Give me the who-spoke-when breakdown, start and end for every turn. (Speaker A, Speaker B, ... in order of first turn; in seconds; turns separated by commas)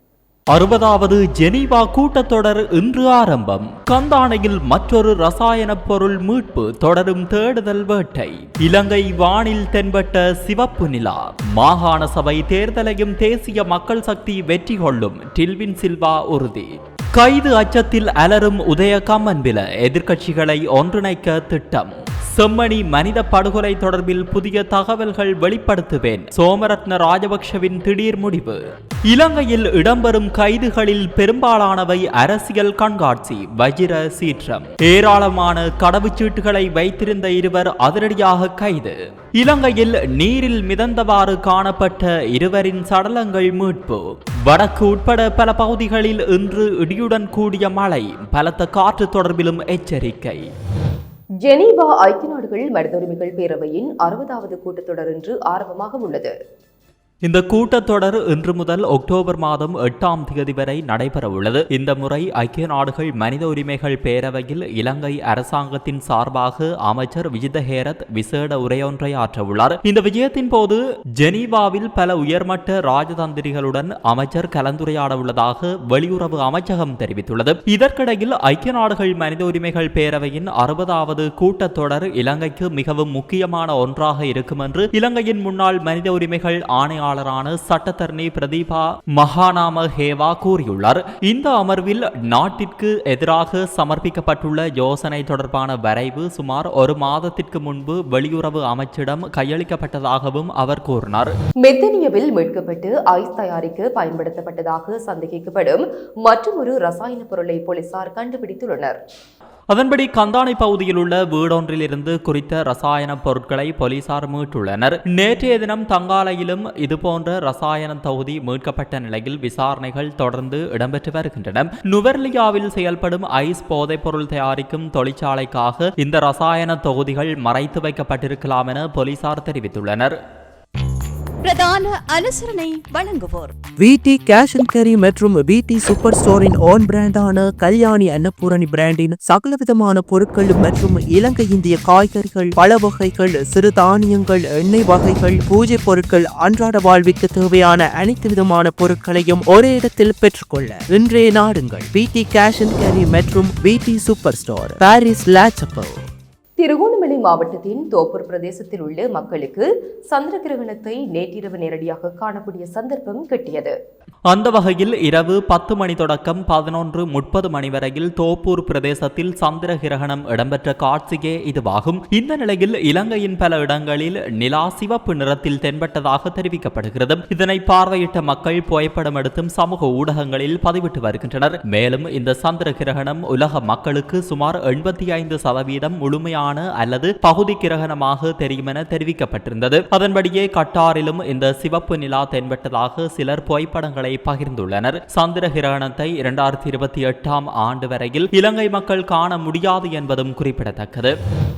Speaker A: 0.5-50.5, Speaker B: 51.4-56.3, Speaker A: 57.2-101.3, Speaker B: 101.6-109.0, Speaker A: 109.7-130.2, Speaker C: 131.4-133.5, Speaker D: 133.8-156.0, Speaker B: 156.6-163.7, Speaker A: 164.3-201.1